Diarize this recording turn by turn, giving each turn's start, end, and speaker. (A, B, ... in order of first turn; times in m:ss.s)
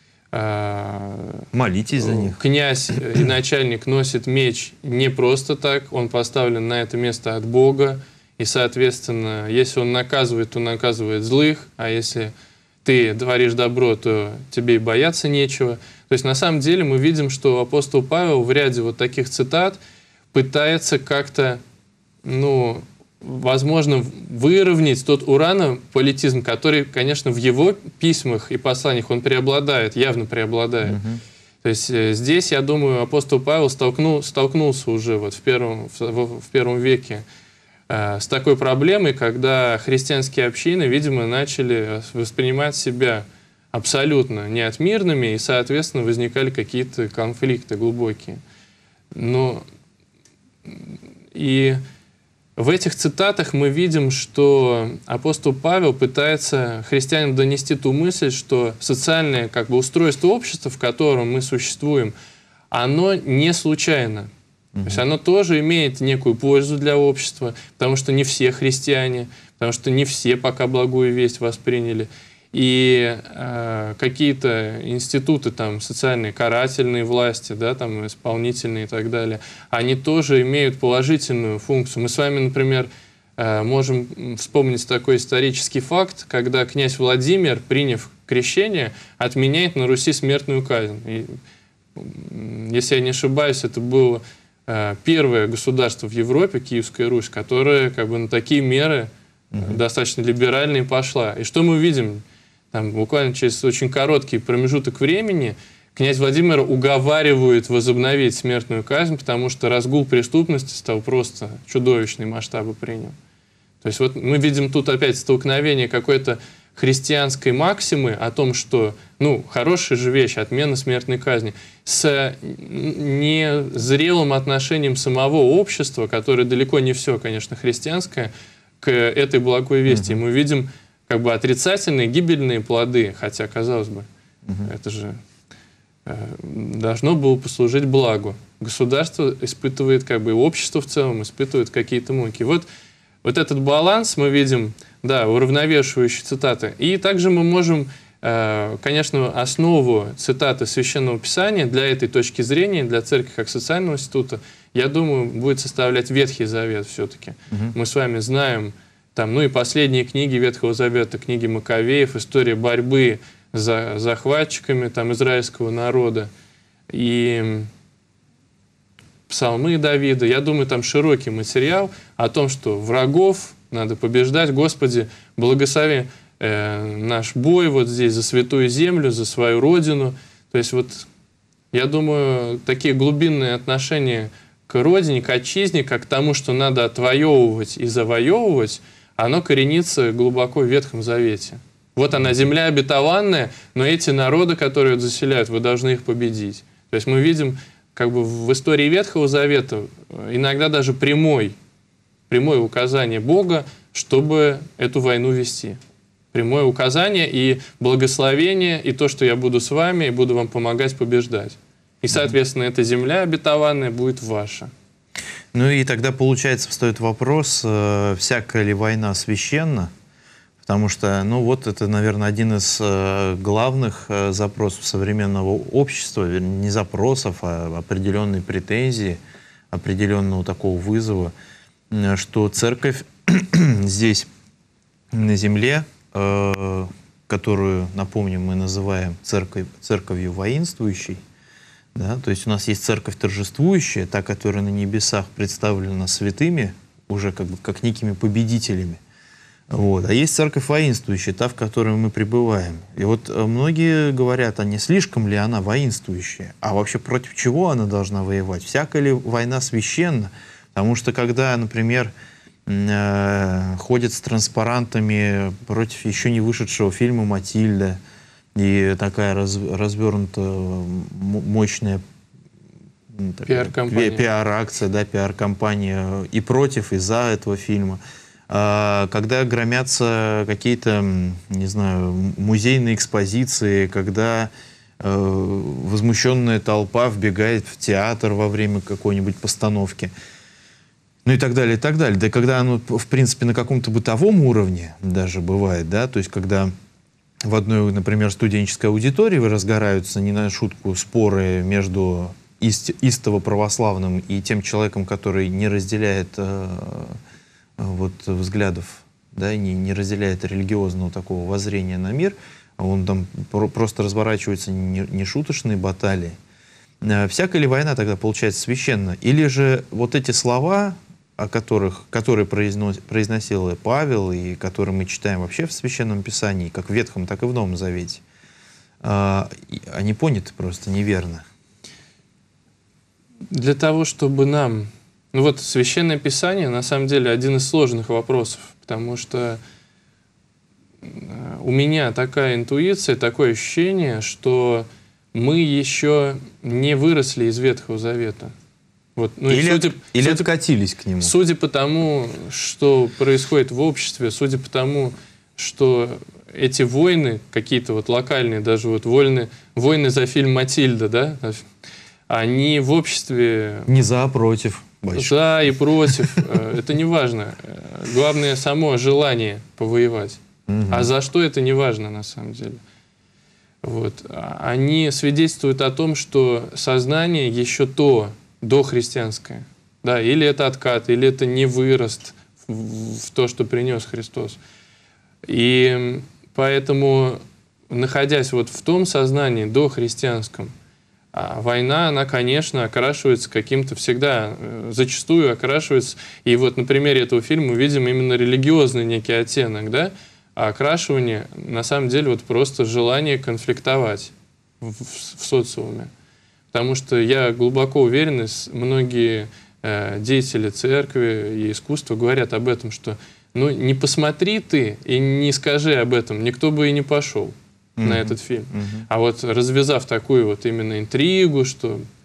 0:00.3-0:01.5 A
0:01.5-0:02.4 B
0:02.0-0:12.3 A
0:12.8-0:19.8 A
0:20.3-0:21.6 A
0:22.2-0:31.0 A
0:30.9-0:31.2 B
0:31.6-0:37.2 A
0:37.9-0:48.4 A
0:49.1-0:49.6 A
0:50.7-0:51.8 A
0:52.6-1:02.1 A
1:02.7-1:04.3 A
1:04.8-1:05.0 B
1:04.8-1:31.4 A
1:32.0-1:53.2 A
1:39.5-1:39.8 B
1:53.8-2:14.1 A
2:09.9-2:10.2 B
2:14.5-2:14.7 B
2:14.6-2:15.2 A
2:16.1-2:22.7 A
2:23.2-2:46.3 A
2:37.5-2:37.8 B
2:46.9-2:47.7 A
2:49.3-3:01.1 A
3:01.7-3:21.6 A
3:22.3-3:25.8 A
3:26.3-3:34.7 A
3:35.5-3:39.9 B
3:40.6-3:49.2 B
3:49.7-3:51.3 B
3:51.9-3:54.3 B
3:55.1-4:01.2 B
4:02.0-4:09.0 B
4:09.7-4:22.1 B
4:22.7-4:28.0 B
4:28.6-4:32.0 B
4:33.1-4:50.1 B
4:33.5-4:34.2 A
4:51.2-4:56.7 B
4:57.5-5:07.2 B
5:07.8-5:16.4 B
5:17.0-5:28.2 B
5:29.0-5:31.4 B
5:33.5-5:39.6 A
5:41.0-5:48.5 A
5:49.2-5:50.5 A
5:49.5-5:51.3 B
5:51.2-6:01.7 A
6:02.3-6:03.9 A
6:03.9-6:05.4 B
6:05.1-6:12.8 A
6:10.7-6:11.1 B
6:13.8-6:24.6 A
6:25.5-6:30.7 A
6:31.3-6:46.1 A
6:46.7-7:02.1 A
6:58.0-6:59.1 B